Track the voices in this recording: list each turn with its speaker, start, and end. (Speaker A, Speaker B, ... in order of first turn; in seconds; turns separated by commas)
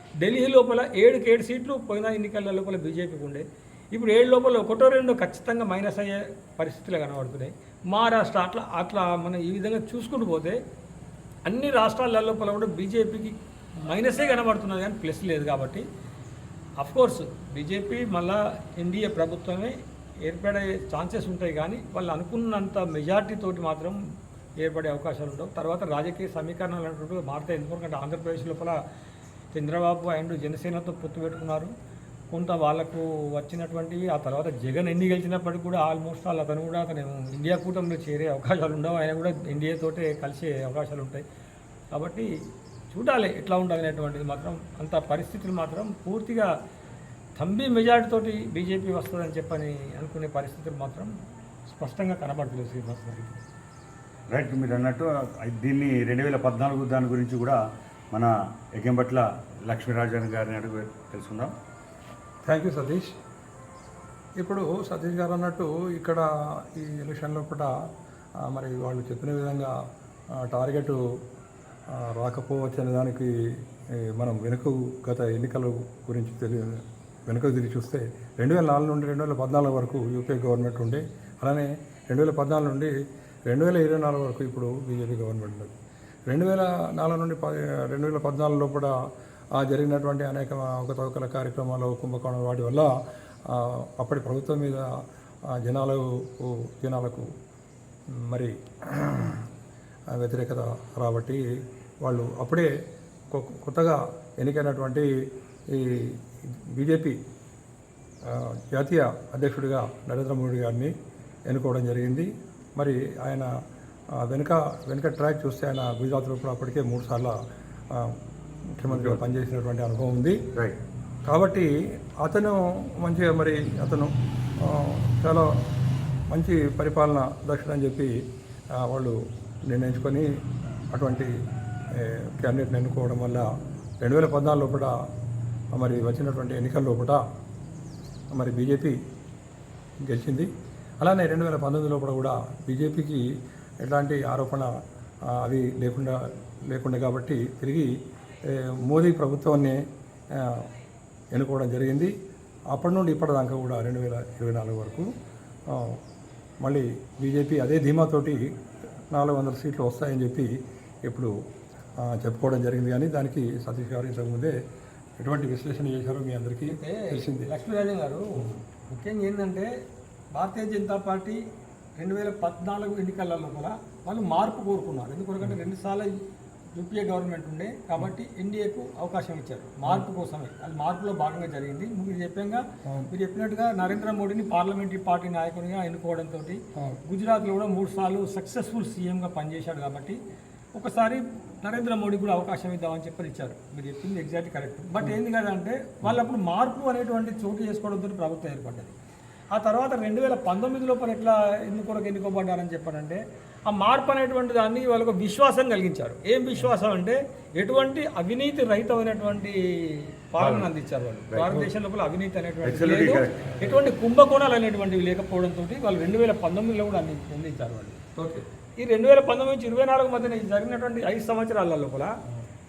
Speaker A: 0.2-10.6, Speaker A: 11.4-15.8, Speaker A: 16.8-24.0, Speaker A: 24.6-28.8, Speaker A: 29.5-31.7, Speaker A: 32.3-41.2, Speaker A: 41.9-42.3, Speaker A: 42.9-46.5, Speaker A: 47.4-51.1, Speaker A: 51.7-53.4, Speaker B: 54.3-57.6, Speaker B: 58.1-61.5, Speaker C: 62.5-63.2, Speaker C: 64.4-67.7, Speaker C: 68.4-69.7, Speaker C: 70.4-71.0, Speaker C: 71.9-73.3, Speaker C: 74.0-82.9, Speaker C: 83.5-85.7, Speaker C: 86.3-88.9, Speaker C: 89.5-92.9, Speaker C: 93.5-94.9, Speaker C: 95.5-97.3, Speaker C: 98.2-99.5, Speaker C: 100.1-101.4, Speaker C: 102.0-102.7, Speaker C: 103.3-105.1, Speaker C: 105.7-107.2, Speaker C: 108.2-110.9, Speaker C: 111.5-113.5, Speaker C: 114.2-117.3, Speaker C: 117.9-118.2, Speaker C: 118.8-120.4, Speaker B: 118.9-119.2, Speaker C: 121.3-121.7, Speaker C: 122.2-125.5, Speaker C: 126.3-128.1, Speaker C: 128.8-129.1, Speaker C: 129.7-130.3, Speaker C: 130.9-131.3, Speaker C: 131.9-133.5, Speaker C: 134.0-134.9, Speaker C: 135.7-137.2, Speaker C: 138.3-139.0, Speaker C: 140.0-140.5, Speaker C: 141.0-143.2, Speaker C: 143.8-144.7, Speaker C: 145.3-147.9, Speaker C: 148.5-149.8, Speaker C: 150.3-150.7, Speaker C: 151.3-152.1, Speaker C: 152.7-155.1, Speaker C: 155.7-156.0, Speaker C: 156.6-158.5, Speaker C: 159.1-160.5, Speaker C: 161.1-161.3, Speaker C: 162.0-164.5, Speaker C: 165.2-167.5, Speaker A: 166.7-169.7, Speaker A: 170.3-171.4, Speaker A: 172.0-176.1, Speaker A: 176.8-190.2, Speaker C: 182.8-183.1, Speaker A: 190.8-198.9, Speaker A: 199.5-218.0, Speaker B: 210.4-210.7, Speaker B: 211.3-211.6, Speaker B: 212.6-213.4, Speaker C: 218.2-218.4, Speaker A: 218.8-222.1